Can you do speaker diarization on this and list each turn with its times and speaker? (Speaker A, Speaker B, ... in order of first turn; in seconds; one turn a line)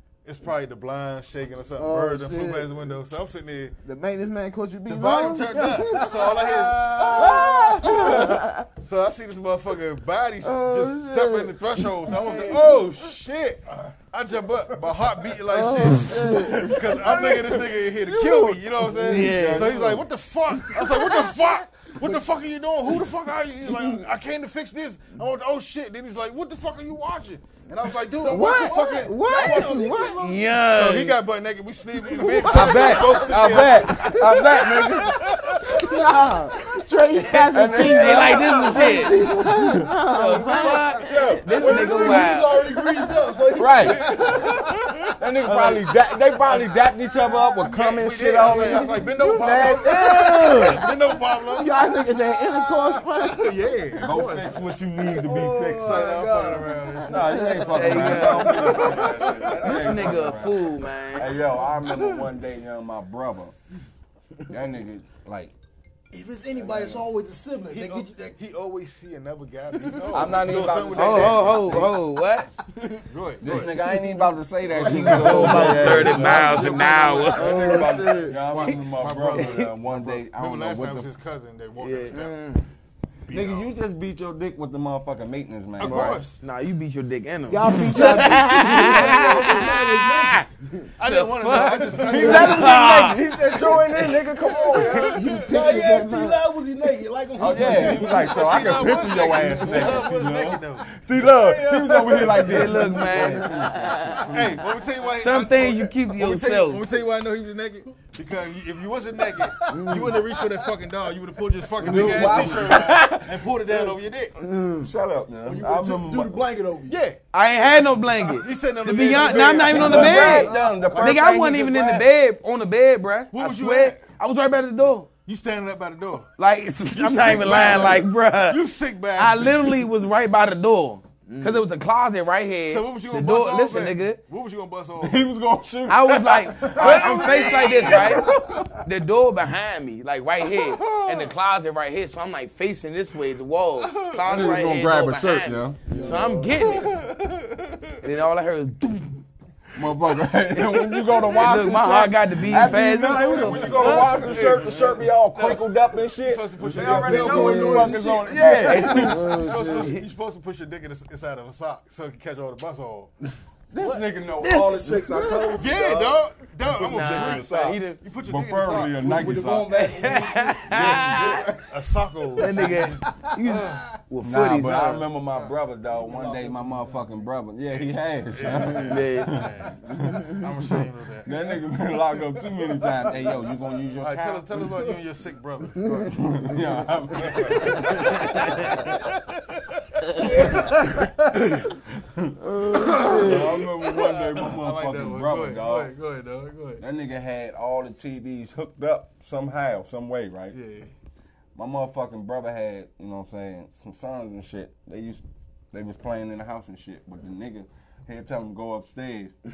Speaker A: 0.2-3.8
Speaker B: 1.8-2.7
Speaker B: 3.8-8.7
Speaker A: 4.9-30.0
Speaker C: 7.2-8.4
Speaker B: 10.4-12.6
Speaker B: 15.5-16.8
Speaker C: 16.3-20.0
Speaker D: 19.0-19.8
Speaker B: 20.8-21.4
Speaker B: 23.7-24.0
Speaker E: 28.2-30.6
Speaker B: 28.2-30.2
Speaker D: 30.2-31.2
Speaker A: 30.7-36.0
Speaker B: 32.1-35.0
Speaker C: 32.5-35.2
Speaker B: 35.7-41.4
Speaker D: 37.1-39.2
Speaker C: 37.5-42.3
Speaker D: 40.0-42.7
Speaker E: 41.5-44.7
Speaker C: 43.5-44.1
Speaker A: 43.8-45.9
Speaker C: 45.2-50.8
Speaker A: 46.4-46.8
Speaker A: 47.6-51.8
Speaker B: 48.5-48.9
Speaker D: 50.0-50.8
Speaker B: 51.5-53.5
Speaker A: 52.9-54.7
Speaker C: 54.0-56.1
Speaker E: 55.0-59.4
Speaker A: 55.2-60.4
Speaker C: 57.1-63.5
Speaker B: 57.2-57.9
Speaker D: 57.7-59.0
Speaker D: 59.6-61.4
Speaker A: 61.8-62.2
Speaker C: 64.5-65.5
Speaker E: 66.1-68.4
Speaker C: 66.5-67.1
Speaker A: 67.7-71.9
Speaker C: 70.1-72.0
Speaker D: 70.9-72.5
Speaker B: 72.8-73.0
Speaker A: 73.1-73.8
Speaker C: 73.4-81.1
Speaker B: 73.9-74.2
Speaker A: 74.7-82.3
Speaker D: 74.8-77.7
Speaker E: 74.8-76.1
Speaker B: 77.3-78.4
Speaker D: 79.3-79.7
Speaker D: 81.8-82.2
Speaker B: 82.1-82.7
Speaker A: 83.3-83.7
Speaker C: 83.3-86.2
Speaker A: 85.8-86.4
Speaker D: 85.8-90.5
Speaker B: 87.5-89.6
Speaker E: 88.1-90.5
Speaker A: 91.0-93.0
Speaker D: 91.0-95.0
Speaker C: 92.0-95.2
Speaker A: 94.6-95.2
Speaker B: 95.0-96.4
Speaker E: 95.2-98.9
Speaker C: 97.4-104.7
Speaker A: 97.7-100.9
Speaker E: 99.4-100.1
Speaker E: 101.1-103.2
Speaker D: 102.4-103.5
Speaker B: 103.2-104.3
Speaker A: 104.3-114.4
Speaker D: 105.2-106.8
Speaker E: 109.7-109.9
Speaker B: 109.7-110.2
Speaker C: 111.8-113.4
Speaker E: 111.9-112.3
Speaker B: 112.0-112.5
Speaker D: 112.7-113.1
Speaker B: 114.4-114.9
Speaker C: 114.8-116.5
Speaker E: 115.4-117.0
Speaker A: 116.9-117.2
Speaker D: 117.3-125.1
Speaker A: 118.2-121.3
Speaker C: 119.3-122.0
Speaker E: 119.7-120.9
Speaker A: 123.3-124.0
Speaker A: 125.2-126.3
Speaker D: 126.4-128.6
Speaker A: 126.9-129.8
Speaker D: 129.2-134.2
Speaker B: 131.3-131.6
Speaker A: 132.7-135.2
Speaker C: 135.0-138.8
Speaker D: 135.9-147.0
Speaker A: 136.8-138.2
Speaker A: 140.5-141.3
Speaker A: 143.8-144.7
Speaker C: 144.2-146.2
Speaker B: 145.9-146.2
Speaker A: 145.9-148.1
Speaker E: 145.9-146.2
Speaker D: 148.0-149.2
Speaker C: 149.8-159.3
Speaker D: 151.3-154.4
Speaker A: 153.3-157.9
Speaker E: 156.8-159.2
Speaker B: 157.2-158.0
Speaker D: 158.5-160.0
Speaker A: 158.6-163.1
Speaker B: 158.9-159.9
Speaker C: 163.7-169.9
Speaker D: 164.4-165.0
Speaker B: 165.1-165.5
Speaker A: 165.6-169.1
Speaker D: 166.8-168.0
Speaker E: 168.9-171.7
Speaker D: 169.8-171.5
Speaker A: 170.7-173.9
Speaker D: 172.4-175.1
Speaker C: 174.2-180.2
Speaker A: 175.3-175.6
Speaker E: 175.9-177.2
Speaker A: 178.3-181.4
Speaker D: 178.8-179.3
Speaker C: 181.2-184.5
Speaker A: 184.0-186.3
Speaker C: 186.1-189.0
Speaker A: 187.2-190.9
Speaker C: 190.2-195.9
Speaker B: 192.4-193.6
Speaker A: 192.7-196.8
Speaker C: 196.8-200.6
Speaker A: 200.5-200.9
Speaker C: 201.6-205.2
Speaker C: 205.7-209.3